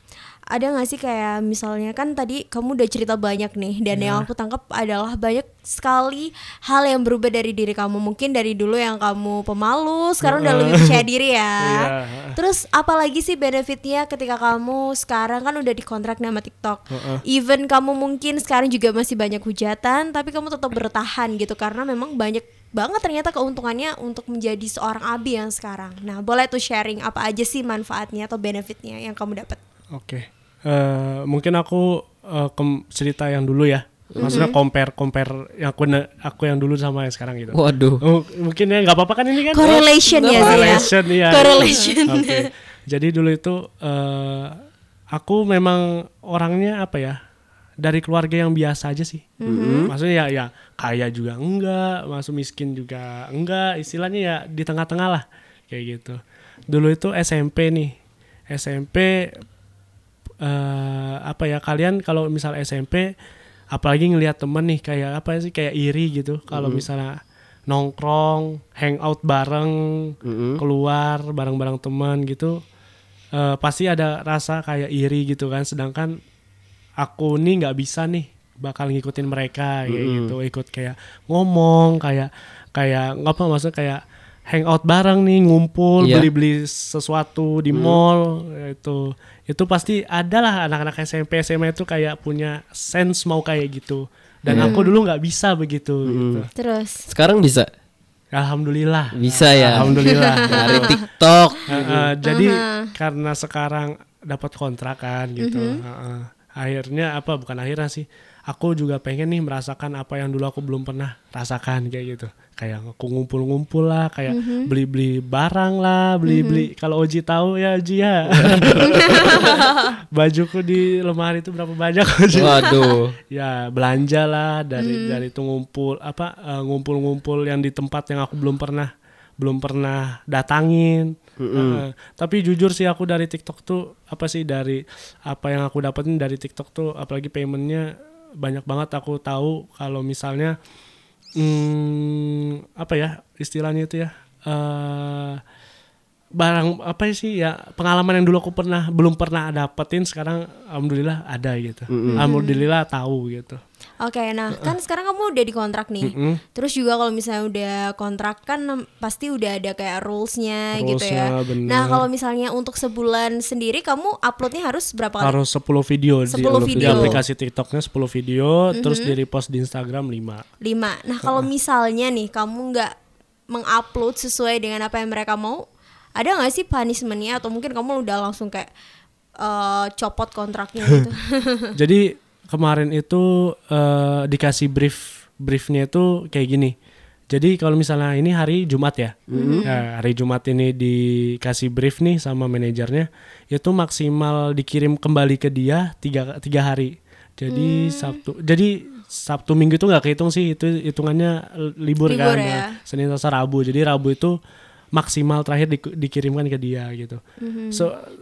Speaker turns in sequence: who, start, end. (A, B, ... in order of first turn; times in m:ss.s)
0:00.5-0:29.6 A
0:03.9-0:04.3 B
0:10.2-0:11.0 B
0:11.6-0:12.4 B
0:16.9-0:17.2 B
0:29.9-0:44.6 B
0:34.1-0:34.5 C
0:34.2-0:34.6 A
0:37.5-0:38.0 C
0:39.5-0:42.5 A
0:40.3-0:40.7 C
0:45.1-0:47.2 B
0:47.8-0:49.3 B
0:49.4-0:49.9 A
0:49.4-0:49.9 C
0:49.8-0:56.2 B
0:56.7-0:57.9 B
0:58.5-0:59.3 B
1:00.4-1:03.1 B
1:03.7-1:07.2 B
1:06.5-1:06.8 C
1:07.7-1:12.6 B
1:10.2-1:10.6 C
1:13.3-1:16.2 B
1:17.0-1:36.5 B
1:19.9-1:20.3 C
1:26.0-1:26.3 C
1:27.7-1:28.0 C
1:34.5-1:34.7 C
1:34.5-1:34.9 A
1:36.0-1:36.4 C
1:36.6-1:37.0 A
1:37.1-1:37.7 C
1:38.3-1:41.0 B
1:39.1-1:42.1 C
1:39.8-1:40.9 A
1:41.7-2:17.9 B
1:42.2-1:42.9 A
1:45.4-1:45.8 A
1:54.3-1:54.7 A
1:56.2-1:56.7 A
1:58.3-1:59.0 C
1:58.9-1:59.8 A
2:02.3-2:03.1 C
2:04.8-2:05.2 A
2:11.4-2:11.8 C
2:18.4-2:20.5 B
2:21.4-2:25.4 B
2:26.4-2:33.6 B
2:31.9-2:32.2 C
2:32.1-2:32.6 A
2:34.0-2:45.4 A
2:36.0-2:36.4 B
2:40.7-2:42.0 B
2:45.2-2:50.4 B
2:46.3-2:47.2 A
2:46.4-2:47.2 C
2:48.8-2:49.1 A
2:50.6-2:52.9 A
2:53.5-2:55.6 A
2:56.2-2:58.7 A
2:59.4-3:01.7 A
3:01.7-3:06.7 B
3:07.3-3:24.4 B
3:09.3-3:09.6 C
3:09.3-3:09.8 A
3:17.5-3:18.2 A
3:22.1-3:22.8 A
3:24.9-3:27.2 B
3:27.4-3:27.9 A
3:27.7-3:28.0 B